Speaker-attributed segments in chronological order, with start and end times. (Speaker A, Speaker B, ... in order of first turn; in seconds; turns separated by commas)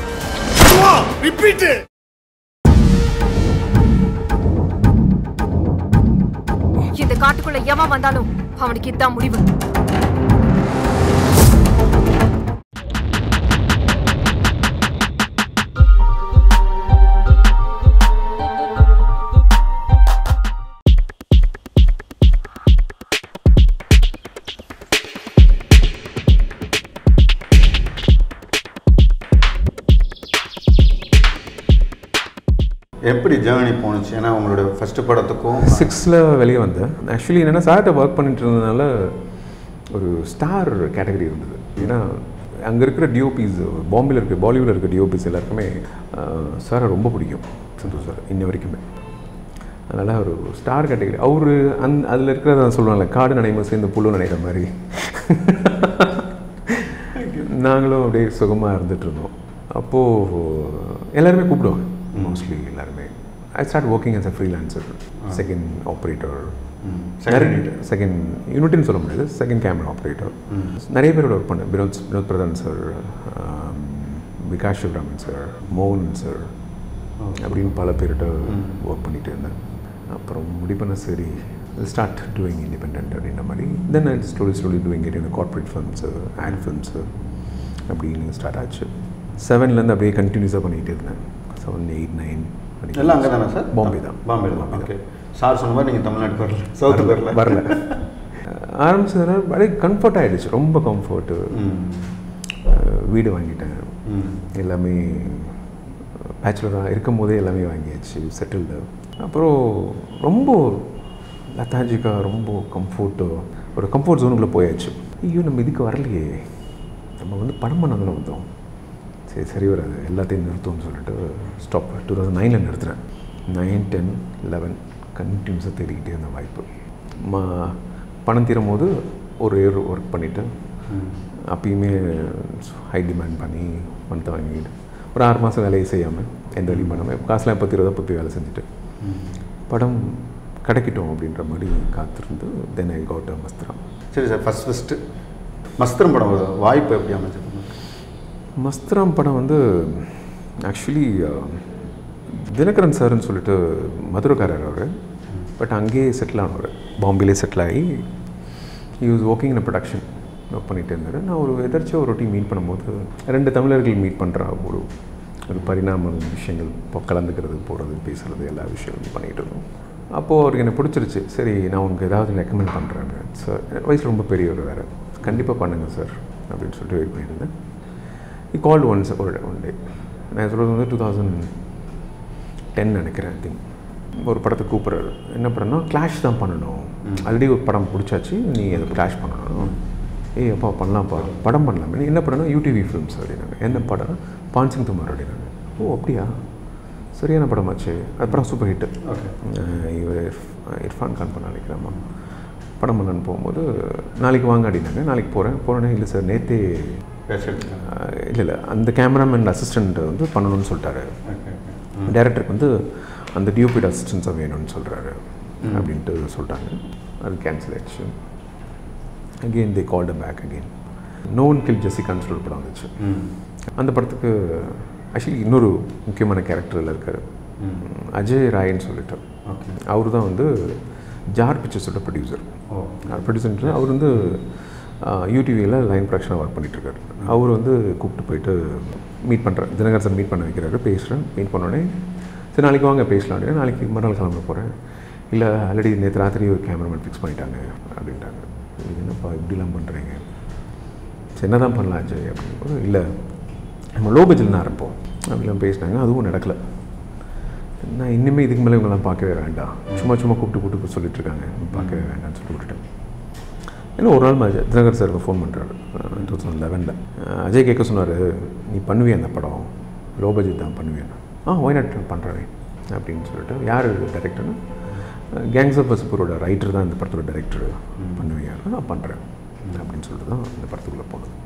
Speaker A: 7.0-9.4, Speaker B: 33.0-35.9, Speaker C: 35.6-39.2, Speaker C: 39.9-48.8, Speaker C: 49.9-66.6, Speaker B: 57.1-57.5, Speaker B: 62.1-62.5, Speaker B: 66.8-67.8, Speaker C: 67.3-76.5, Speaker B: 70.3-70.8, Speaker B: 77.2-77.8, Speaker C: 77.3-79.6, Speaker B: 78.4-78.8, Speaker C: 80.1-87.1, Speaker C: 87.9-94.9, Speaker B: 92.9-98.1, Speaker C: 96.8-101.6, Speaker B: 101.5-102.2, Speaker C: 102.6-105.6, Speaker B: 104.0-104.5, Speaker C: 106.2-111.0, Speaker C: 111.5-116.5, Speaker C: 117.2-118.5, Speaker C: 119.3-130.5, Speaker B: 130.9-131.2, Speaker C: 131.5-138.6, Speaker B: 136.7-137.1, Speaker B: 139.0-139.4, Speaker C: 139.7-143.8, Speaker B: 144.1-145.0, Speaker B: 145.8-147.8, Speaker C: 148.6-154.9, Speaker C: 155.6-158.1, Speaker C: 159.0-164.8, Speaker C: 165.5-177.5, Speaker C: 178.5-181.6, Speaker C: 182.7-183.6, Speaker C: 184.2-189.8, Speaker B: 187.0-187.4, Speaker B: 188.7-189.8, Speaker C: 190.3-196.4, Speaker C: 197.1-202.0, Speaker B: 198.2-199.4, Speaker C: 202.8-207.0, Speaker B: 207.3-207.9, Speaker C: 207.8-211.2, Speaker B: 211.3-212.2, Speaker C: 212.0-218.1, Speaker B: 215.6-215.9, Speaker C: 219.4-220.7, Speaker C: 221.3-222.9, Speaker B: 223.0-223.3, Speaker C: 223.8-229.2, Speaker B: 227.6-227.9, Speaker B: 229.4-229.8, Speaker C: 229.8-232.5, Speaker B: 232.7-234.4, Speaker C: 233.1-241.9, Speaker C: 242.5-244.7, Speaker C: 245.3-250.2, Speaker C: 251.4-253.1, Speaker C: 253.9-256.6, Speaker C: 257.8-262.8, Speaker B: 261.7-262.1, Speaker C: 263.9-274.6, Speaker B: 266.1-266.4, Speaker C: 275.3-281.4, Speaker B: 278.0-278.3